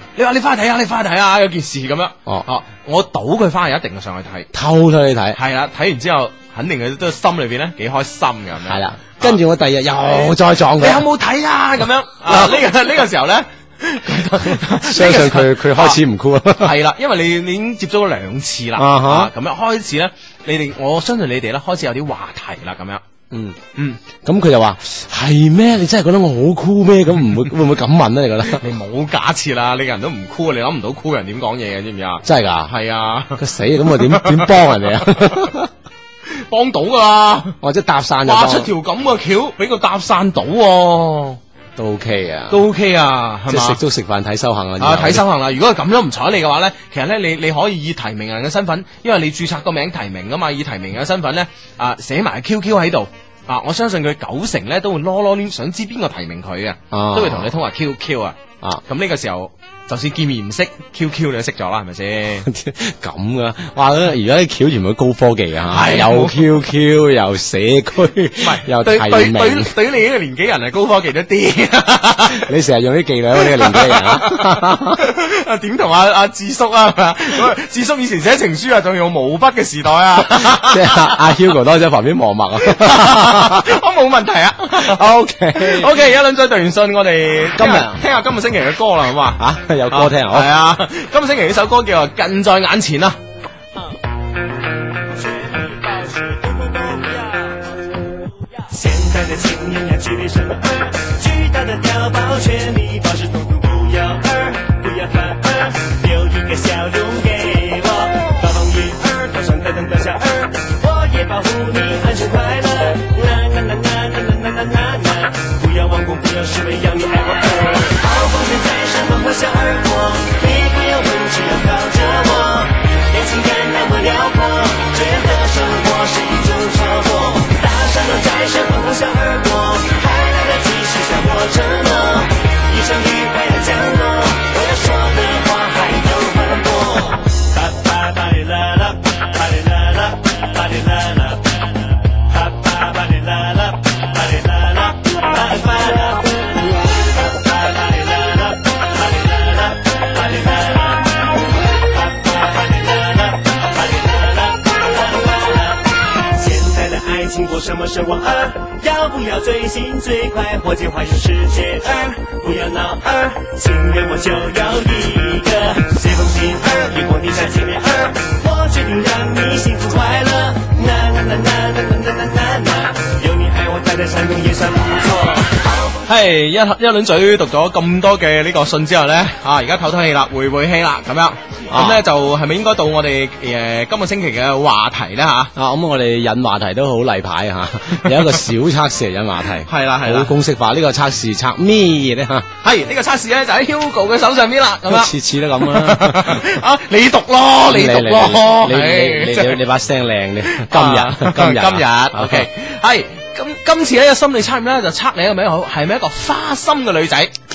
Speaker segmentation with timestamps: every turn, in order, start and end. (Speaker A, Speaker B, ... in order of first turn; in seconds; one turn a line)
Speaker A: 0.1-4.5
Speaker B: 4.5-5.4
Speaker A: 5.3-9.4
Speaker B: 8.7-11.0
Speaker A: 10.1-16.0
Speaker B: 12.3-12.6
Speaker B: 14.3-16.7
Speaker A: 16.6-23.0
Speaker B: 18.8-19.3
Speaker B: 23.3-23.6
Speaker B: 24.2-28.6
Speaker A: 28.6-33.4
Speaker B: 32.2-32.7
Speaker B: 33.4-35.7
Speaker A: 33.9-34.5
Speaker A: 36.4-37.5
Speaker B: 37.6-38.7
Speaker A: 38.2-41.4
Speaker B: 41.8-42.6
Speaker A: 42.5-43.8
Speaker B: 43.5-45.2
Speaker A: 44.8-62.5
Speaker B: 56.9-57.5
Speaker B: 62.4-69.7
Speaker A: 65.7-66.6
Speaker A: 68.4-72.4
Speaker B: 72.3-75.0
Speaker A: 73.4-81.2
Speaker B: 80.2-83.8
Speaker A: 82.6-93.2
Speaker B: 84.8-85.9
Speaker B: 87.5-88.0
Speaker B: 89.4-90.5
Speaker C: 95.0-97.8
Speaker C: 98.5-175.9
Speaker A: 176.0-185.5
Speaker B: 181.7-182.0
Speaker B: 185.5-192.5
Speaker A: 189.7-190.3
Speaker A: 192.6-199.6
Speaker B: 194.9-196.5
Speaker B: 197.7-202.5
Speaker A: 200.6-207.3